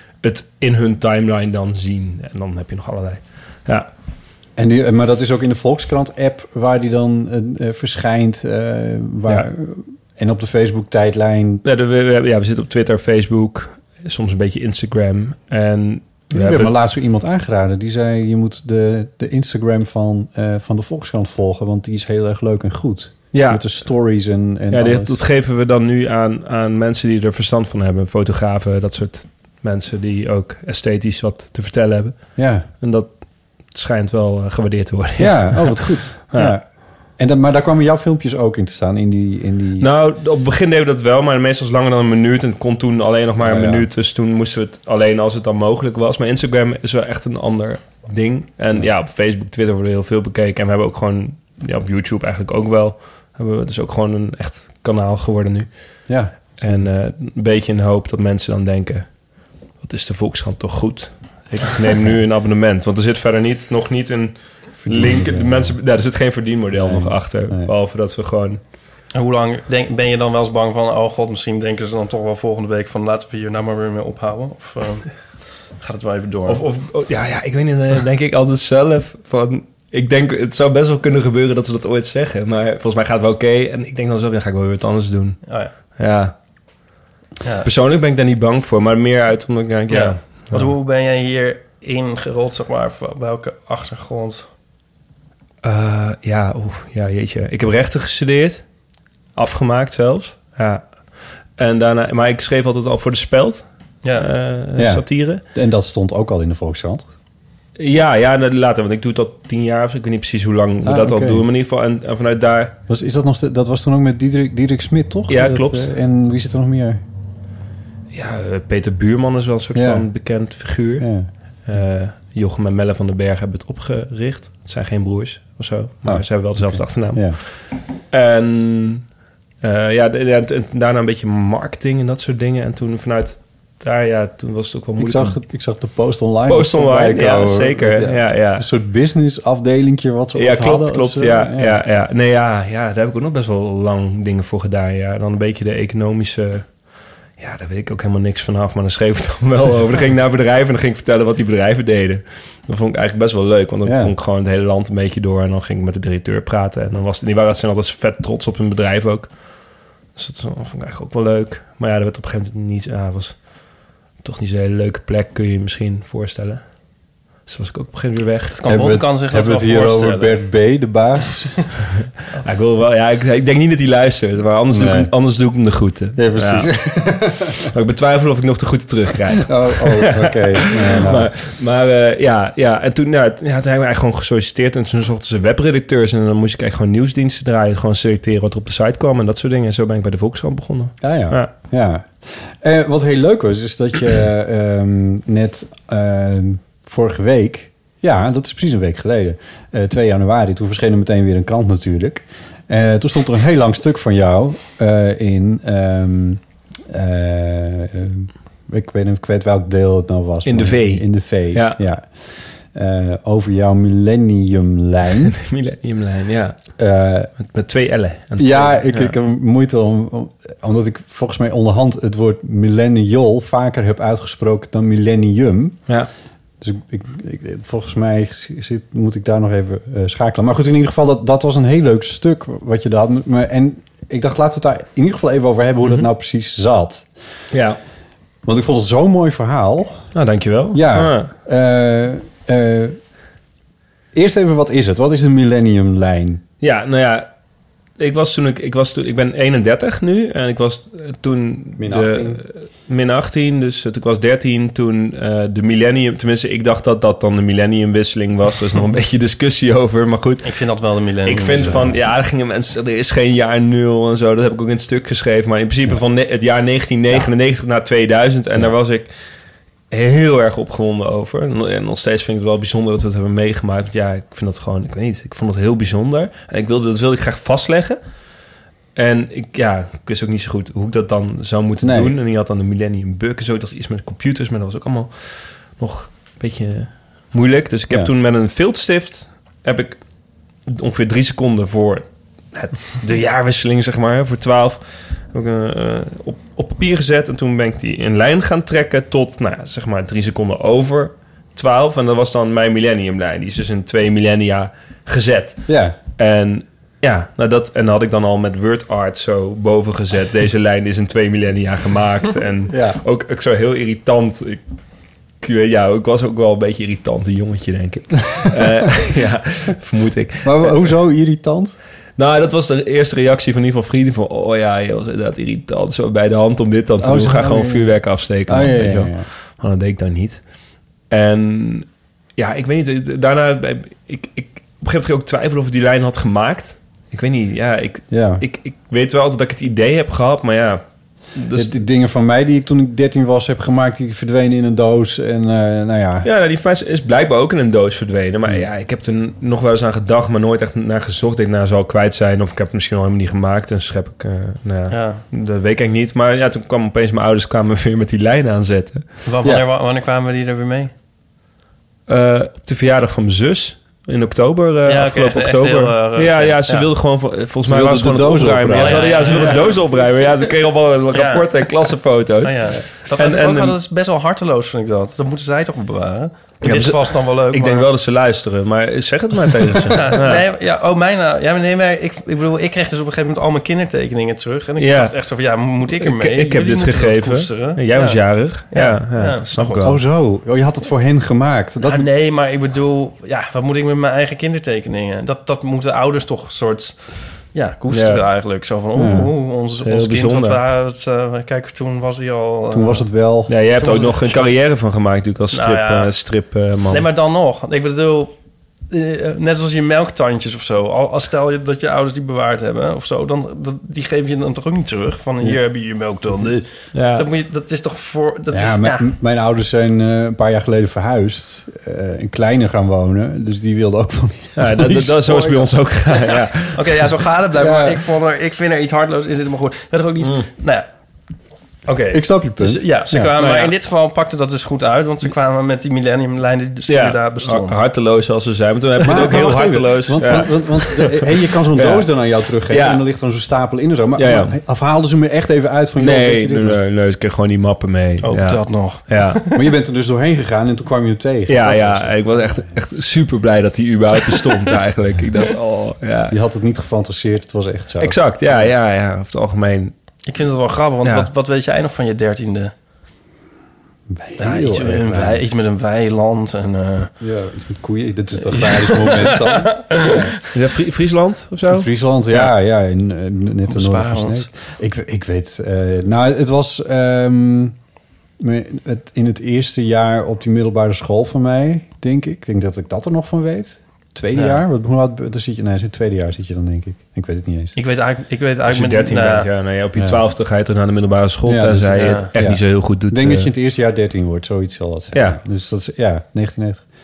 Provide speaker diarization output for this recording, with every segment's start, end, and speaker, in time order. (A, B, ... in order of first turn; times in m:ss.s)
0:00.2-0:03.9 A
0:04.6-0:11.6 B
0:11.6-0:16.7 A
0:16.3-0:25.2 B
0:23.3-0:23.6 A
0:24.7-0:33.1 A
0:32.4-0:32.7 B
0:33.7-0:36.6 A
0:35.2-0:36.6 B
0:37.2-0:39.9 B
0:39.8-0:55.7 A
0:43.4-0:43.9 B
0:56.1-0:56.9 B
0:56.6-0:59.1 A
0:59.8-1:08.6 A
1:04.8-1:05.8 B
1:06.7-1:07.7 B
1:09.1-1:15.1 C
1:15.8-1:16.6 C
1:16.5-1:26.3 A
1:25.5-1:25.7 C
1:27.6-1:30.7 A
1:29.9-1:34.5 C
1:35.6-1:38.6 A
1:39.4-1:40.8 A
1:41.6-1:45.4 A
1:44.8-1:47.1 B
1:47.8-1:52.8 A
1:50.8-1:51.4 B
1:52.9-1:57.0 B
1:55.3-1:55.9 A
1:58.1-2:01.1 A
1:59.7-2:00.1 B
2:01.0-2:01.3 B
2:01.7-2:07.4 A
2:06.0-2:07.4 B
2:08.1-2:09.0 A
2:09.6-2:15.4 A
2:15.0-2:21.8 B
2:16.5-2:18.7 A
2:20.4-2:26.8 A
2:27.4-2:39.3 A
2:33.8-2:34.1 B
2:40.2-2:43.4 A
2:44.2-2:46.6 A
2:47.5-2:48.6 A
2:48.5-2:50.4 C
2:48.7-2:51.8 B
2:52.4-3:11.5 A
2:54.7-2:55.1 B
2:56.2-2:57.7 B
2:59.4-3:01.3 B
3:11.0-3:35.3 B
3:30.4-3:31.8 A
3:35.3-3:36.6 A
3:36.8-3:37.3 B
3:37.4-3:39.2 A
3:38.4-3:45.8 B
3:46.6-3:57.1 B
3:57.5-3:57.8 A
3:58.4-4:00.1 B
4:00.1-4:01.3 A
4:00.7-4:03.0 B
4:04.1-4:06.4 B
4:06.6-4:07.3 A
4:08.0-4:20.6 A
4:11.8-4:12.4 B
4:20.4-4:21.8 C
4:21.2-4:29.1 A
4:21.6-4:22.0 B
4:29.9-4:38.0 A
4:39.0-4:50.0 A
4:41.8-4:42.2 B
4:50.7-5:14.6 A
5:05.7-5:06.0 B
5:12.7-5:13.0 B
5:15.4-5:20.9 A
5:20.4-5:21.8 B
5:22.2-5:30.4 A
5:27.0-5:29.3 B
5:31.1-5:31.9 A
5:32.4-5:40.8 A
5:38.1-5:38.4 B
5:41.4-5:41.8 A
5:41.5-5:46.3 B
5:46.2-5:59.0 A
5:54.9-5:55.2 C
5:59.2-6:00.9 C
6:02.1-6:13.8 A
6:04.9-6:06.9 C
6:07.6-6:09.5 B
6:08.8-6:09.9 C
6:11.1-6:11.5 C
6:12.4-6:17.9 C
6:16.6-6:20.4 A
6:19.9-6:30.0 C
6:24.8-6:25.1 A
6:25.9-6:30.0 A
6:29.8-6:32.1 B
6:31.8-6:43.0 C
6:37.9-6:38.2 A
6:39.0-6:39.3 B
6:39.8-6:40.6 A
6:42.7-6:43.6 B
6:43.5-6:47.1 A
6:43.8-6:44.5 C
6:45.5-6:46.1 C
6:46.9-6:48.3 C
6:48.9-6:59.1 C
6:56.9-6:57.3 A
6:58.5-7:05.7 B
7:04.6-7:07.0 A
7:06.3-7:10.9 C
7:07.6-7:08.0 B
7:11.9-7:17.8 C
7:12.1-7:13.3 B
7:13.4-7:13.7 A
7:16.9-7:22.1 A
7:19.0-7:26.8 B
7:22.7-7:23.0 A
7:24.2-7:24.6 A
7:26.0-7:29.4 A
7:28.2-7:29.5 C
7:29.5-7:32.7 B
7:31.5-7:36.4 A
7:36.3-7:38.2 B
7:38.0-7:39.9 A
7:40.3-7:42.7 C
7:41.0-7:41.3 A
7:44.1-7:45.4 B
7:44.4-7:47.1 C
7:47.2-7:50.4 B
7:48.5-7:50.2 C
7:50.5-7:52.5 A
7:51.7-7:57.8 B
7:53.7-7:54.5 C
7:58.4-8:07.8 B
8:04.4-8:04.6 C
8:07.8-8:09.5 C
8:08.6-8:13.5 A
8:10.0-8:10.2 B
8:11.4-8:16.8 B
8:11.9-8:12.3 C
8:15.1-8:15.4 A